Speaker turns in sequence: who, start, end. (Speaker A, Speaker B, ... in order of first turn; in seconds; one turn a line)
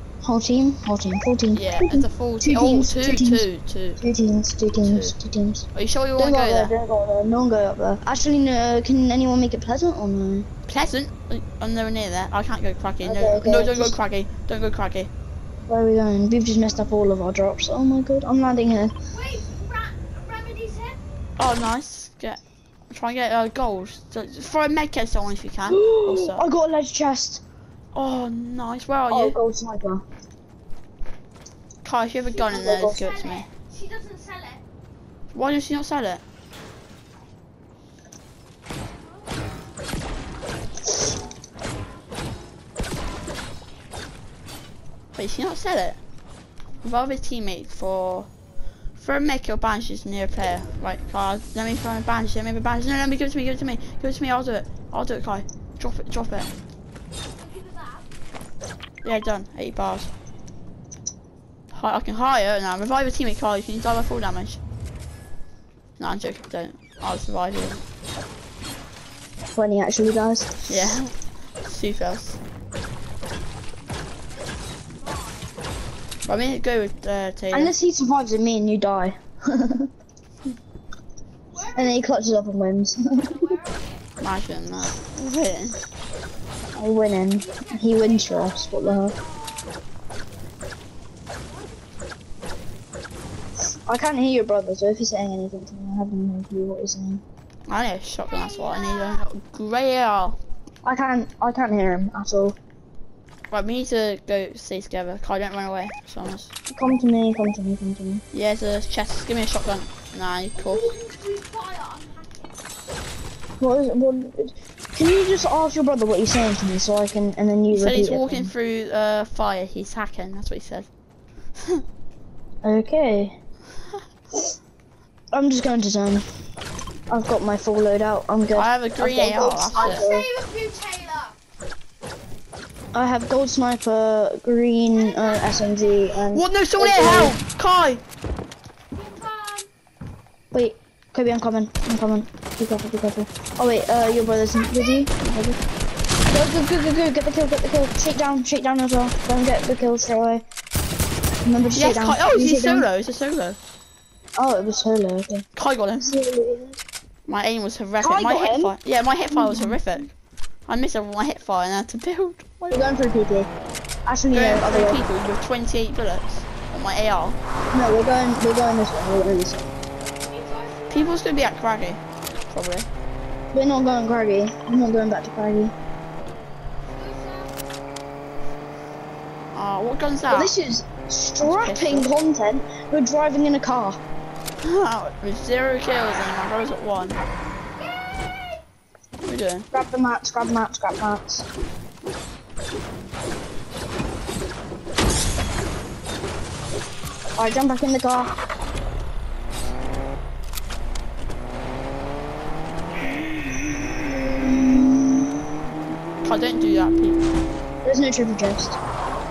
Speaker A: 0.2-3.5
Speaker B: 1.5-4.0
Speaker A: 4.0-5.7
Speaker B: 4.7-5.1
Speaker B: 5.7-6.7
Speaker A: 6.2-10.5
Speaker B: 10.7-15.1
Speaker A: 13.0-13.9
Speaker A: 15.7-18.9
Speaker C: 19.1-21.0
Speaker B: 21.4-22.4
Speaker B: 22.9-26.4
Speaker A: 25.6-27.4
Speaker B: 27.9-29.4
Speaker A: 29.1-30.0
Speaker B: 31.8-33.5
Speaker C: 32.4-34.6
Speaker A: 32.5-33.0
Speaker B: 35.3-36.2
Speaker C: 39.0-39.4
Speaker B: 45.1-46.0
Speaker B: 46.8-48.3
Speaker B: 49.0-56.5
Speaker C: 57.4-58.1
Speaker B: 59.0-60.1
Speaker B: 61.7-64.6
Speaker B: 66.0-67.8
Speaker A: 69.5-70.9
Speaker B: 70.7-72.4
Speaker C: 74.5-75.5
Speaker B: 76.2-77.7
Speaker A: 77.5-79.9
Speaker C: 81.5-82.0
Speaker A: 81.7-83.6
Speaker C: 83.1-84.0
Speaker B: 84.2-85.8
Speaker A: 86.7-89.2
Speaker C: 87.4-89.8
Speaker C: 91.4-91.9
Speaker A: 93.9-97.2
Speaker B: 97.7-100.4
Speaker C: 98.2-99.2
Speaker A: 100.8-102.5
Speaker B: 103.5-106.5
Speaker A: 106.7-108.2
Speaker B: 108.3-110.9
Speaker C: 110.5-112.5
Speaker A: 113.6-118.5
Speaker B: 117.7-120.9
Speaker A: 122.6-123.3
Speaker A: 125.3-126.2
Speaker A: 127.1-130.3
Speaker B: 128.5-130.1
Speaker C: 129.7-131.3
Speaker A: 132.9-137.4
Speaker C: 134.9-136.2
Speaker B: 136.3-138.0
Speaker C: 138.9-139.7
Speaker A: 140.5-145.1
Speaker C: 144.8-145.1
Speaker B: 145.2-145.6
Speaker A: 146.3-150.4
Speaker A: 151.4-152.9
Speaker B: 151.7-153.6
Speaker A: 154.3-155.4
Speaker B: 155.6-156.1
Speaker A: 156.0-156.8
Speaker B: 157.2-160.1
Speaker A: 158.0-158.7
Speaker A: 159.3-159.8
Speaker B: 160.7-162.8
Speaker A: 162.7-163.5
Speaker A: 164.1-165.0
Speaker B: 164.3-167.4
Speaker A: 167.7-169.7
Speaker C: 170.2-171.3
Speaker B: 170.9-172.9
Speaker A: 173.5-175.7
Speaker C: 176.8-177.6
Speaker B: 179.5-180.5
Speaker A: 180.3-184.0
Speaker B: 181.4-182.1
Speaker B: 184.6-187.2
Speaker C: 187.8-188.6
Speaker B: 189.2-189.7
Speaker A: 189.7-191.5
Speaker A: 197.3-198.3
Speaker A: 204.3-205.2
Speaker B: 206.2-207.2
Speaker A: 207.8-208.8